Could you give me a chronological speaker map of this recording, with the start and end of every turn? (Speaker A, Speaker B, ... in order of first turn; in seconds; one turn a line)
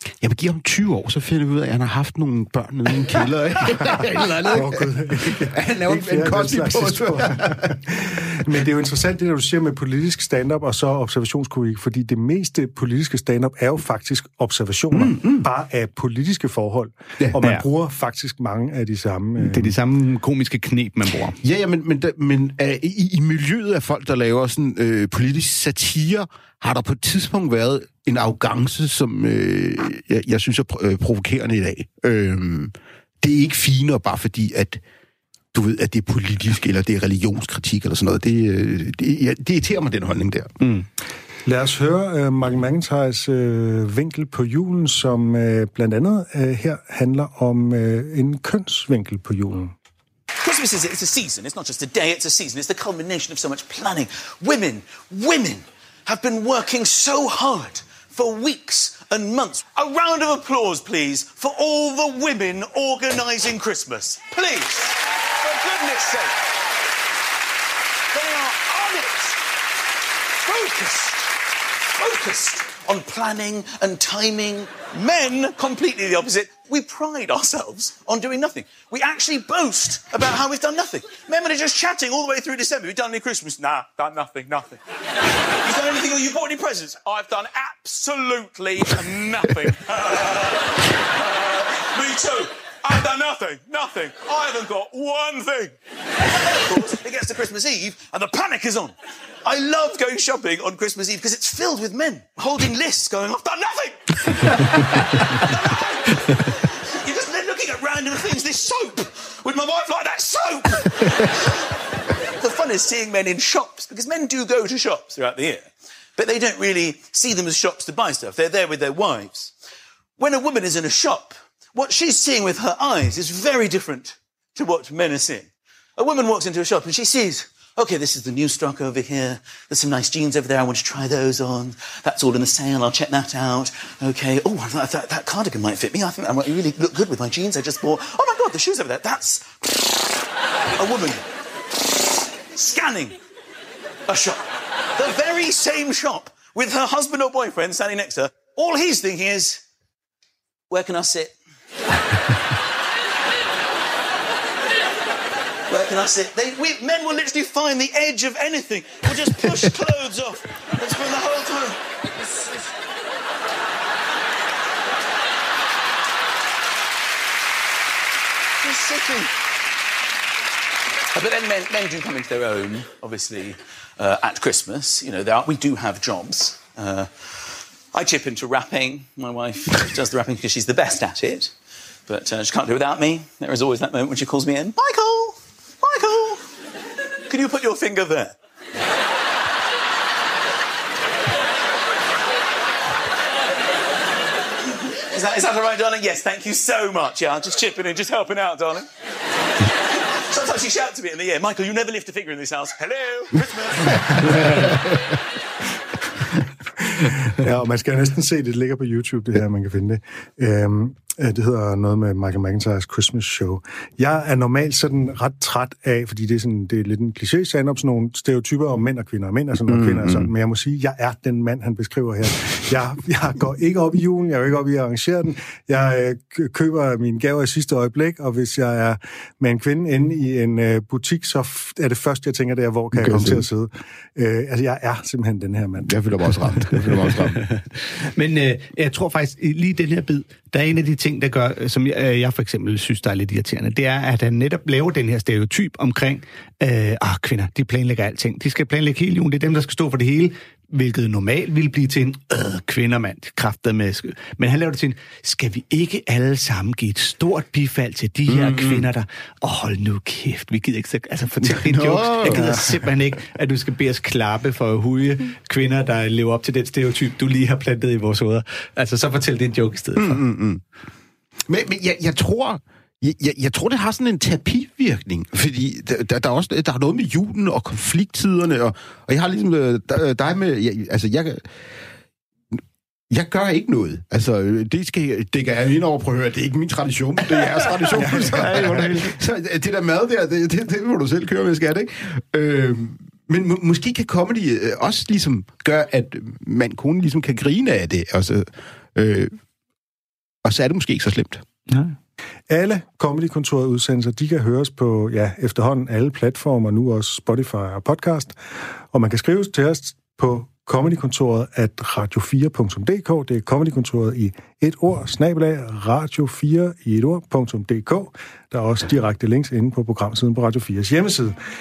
Speaker A: 0.2-7.8
Speaker B: 3.8-19.8
Speaker A: 14.9-15.5
Speaker C: 19.4-21.4
Speaker A: 21.4-34.8
Speaker A: 35.5-40.5
Speaker C: 40.6-40.9
Speaker B: 41.5-49.8
Speaker D: 50.4-66.4
Speaker D: 68.1-69.4
Speaker D: 70.4-71.3
Speaker D: 71.9-84.8
Speaker D: 85.5-95.8
Speaker D: 96.4-111.4
Speaker D: 112.4-119.5
Speaker D: 120.2-140.2
Speaker D: 140.8-141.2
Speaker D: 142.5-143.2
Speaker D: 144.1-149.6
Speaker D: 150.7-151.4
Speaker D: 155.7-162.4
Speaker D: 168.6-169.3
Speaker D: 171.1-181.5
Speaker D: 182.1-186.5
Speaker D: 187.3-188.4
Speaker D: 195.1-198.9
Speaker D: 200.3-203.8
Speaker A: 203.8-204.9
Speaker B: 207.0-236.0
Speaker A: 219.7-220.3
Speaker A: 232.9-233.4
Speaker A: 235.8-237.5
Speaker C: 237.7-270.2
Speaker A: 258.3-258.9
Speaker A: 261.4-262.9
Speaker B: 262.2-262.6
Speaker A: 270.0-270.6
Speaker A: 271.5-281.5
Speaker A: 283.1-299.4
Speaker C: 287.9-289.2
Speaker A: 300.4-301.4
Speaker C: 301.7-301.9
Speaker B: 302.5-308.4
Speaker B: 308.9-321.4